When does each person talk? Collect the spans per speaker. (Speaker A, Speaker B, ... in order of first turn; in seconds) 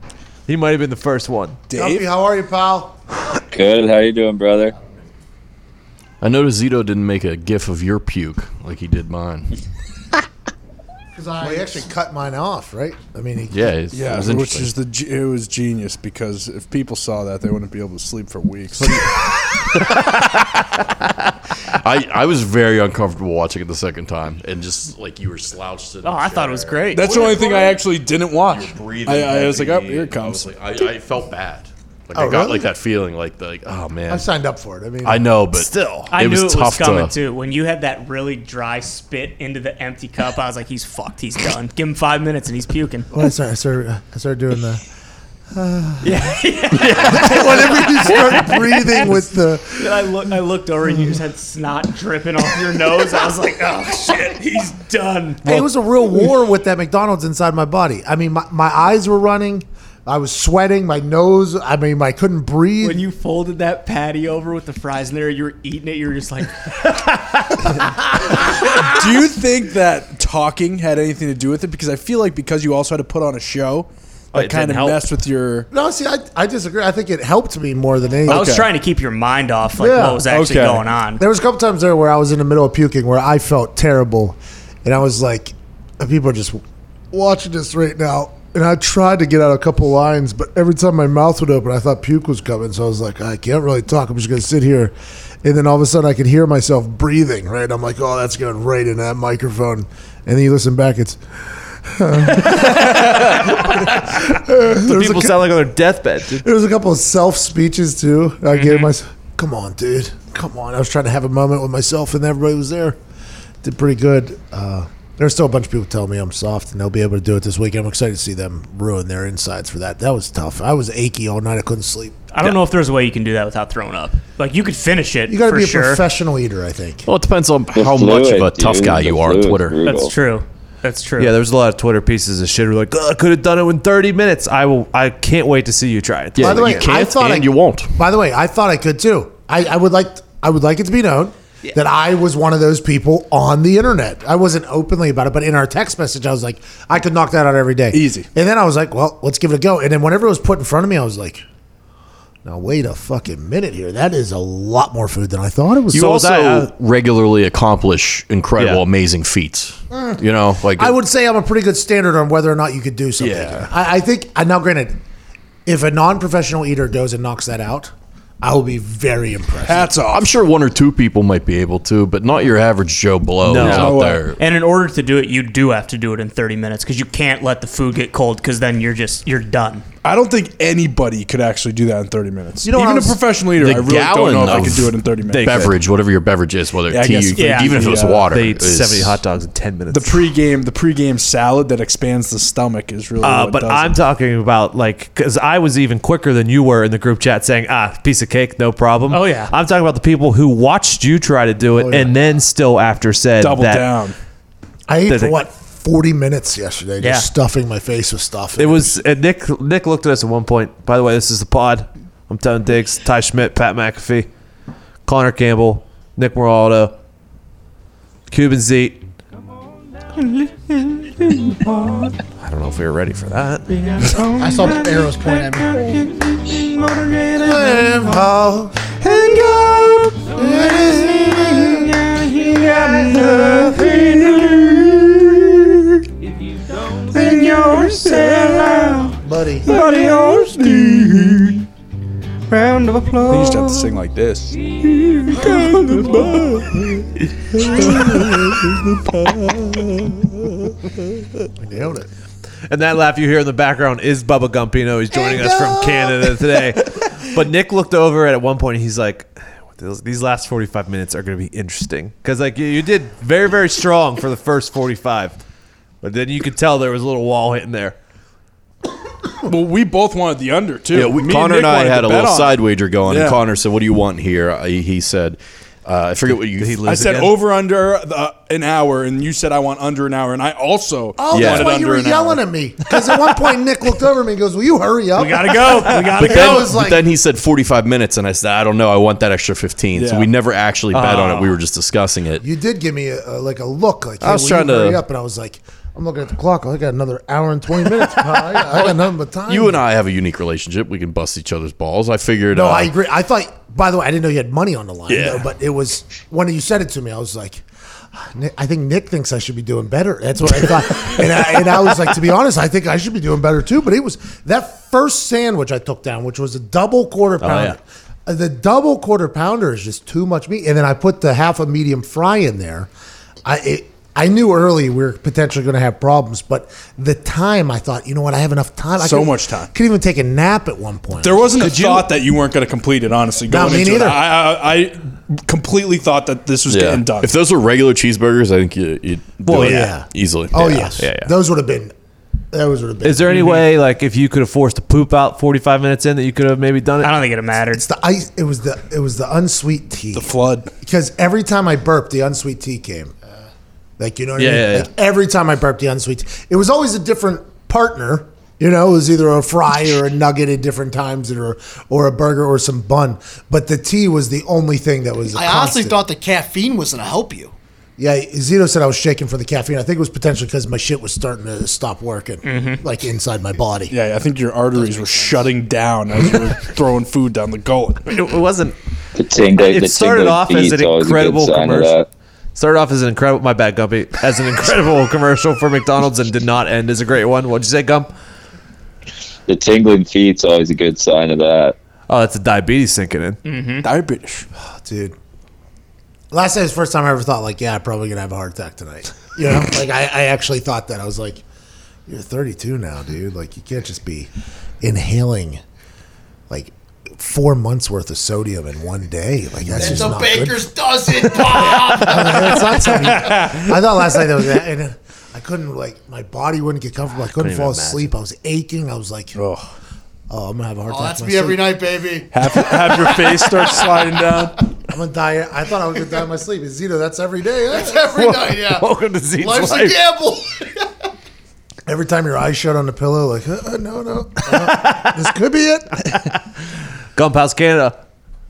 Speaker A: 0.5-1.6, 18.8-20.8, 35.5-36.1, 74.3-75.0, 102.3-106.4, 131.2-136.9, 155.9-156.7, 158.6-158.8, 173.4-174.0, 185.3-185.7, 188.3-190.3, 193.2-203.9, 205.1-205.4, 208.6-214.3, 215.1-216.9, 218.3-219.1, 222.4-223.7, 252.7-265.3, 266.0-268.0, 276.6-277.3, 290.9-291.5, 317.4-317.8, 331.7-332.0, 339.4-339.9, 340.6-341.3, 343.0-347.2, 354.4-354.9, 378.1-378.8, 379.6-381.9, 382.5-388.1, 392.1-393.4, 411.5-412.3, 417.3-418.1, 428.1-430.0, 434.5-435.2, 436.1-436.4, 437.1-438.0
Speaker B: 1.7-2.1, 13.9-19.1, 26.9-30.5, 68.8-75.7, 78.2-78.7, 80.3-80.9, 147.9-148.3, 169.6-170.3, 173.6-174.2, 180.0-185.7, 186.9-188.4, 189.9-194.0, 203.4-204.2, 239.7-241.5, 243.2-247.1, 247.6-249.1, 269.4-273.4, 276.8-282.4, 285.8-286.2, 289.9-290.3, 329.0-329.7, 331.2-337.3, 350.1-350.7, 373.9-378.0, 393.8-394.4, 413.1-413.7, 419.4-419.7, 422.3-424.6
Speaker C: 1.7-3.0, 11.4-13.7, 32.1-32.7, 34.1-35.3, 43.1-44.8, 45.5-46.2, 46.8-50.2, 55.4-63.0, 75.7-78.5, 79.8-80.3, 81.2-105.5, 106.3-113.0, 113.6-122.3, 125.3-127.1, 136.4-151.4, 152.4-156.2, 159.9-165.0, 165.7-169.9, 182.6-183.2, 201.7-202.1, 204.9-209.0, 227.4-232.0, 232.6-234.1, 239.2-239.7, 247.5-248.7, 251.6-252.1, 255.1-256.5, 281.2-287.1, 292.4-299.8, 302.5-322.9, 323.4-331.8, 333.5-334.2, 339.5-341.9, 342.5-343.4, 347.7-353.1, 354.0-366.0, 368.0-373.9, 394.8-395.1, 396.3-401.4, 402.1-404.3, 404.8-405.6, 406.5-410.7, 412.0-419.4, 420.3-421.8, 424.9-428.1, 431.9-436.0
Speaker D: 3.5-4.7, 127.7-130.1, 379.1-382.1, 389.5-391.7
Speaker E: 6.2-9.6, 13.5-14.7, 21.7-27.4, 28.4-34.3, 35.0-37.1, 127.1-129.9, 136.3-137.9, 155.9-160.9, 163.2-163.7, 170.1-174.4, 183.6-189.2, 270.9-276.8, 281.3-281.8, 286.2-292.4, 294.2-295.0, 298.1-298.9, 299.5-302.9, 305.1-305.4, 336.7-341.0
Speaker F: 11.1-11.9, 224.2-225.9, 365.3-367.6, 374.7-375.5, 409.7-412.7, 420.9-424.3, 427.7-430.7
Speaker G: 26.0-27.8, 36.1-43.1, 46.0-55.5, 62.8-69.3, 78.3-81.2, 108.5-108.9, 122.3-126.0, 129.9-131.3, 174.3-179.8, 187.3-187.8, 199.1-199.5, 207.0-207.3, 220.2-222.1, 223.7-228.2, 229.0-235.6, 237.1-241.6, 242.5-243.9, 285.1-286.7, 347.0-347.8, 372.4-372.8, 393.4-393.9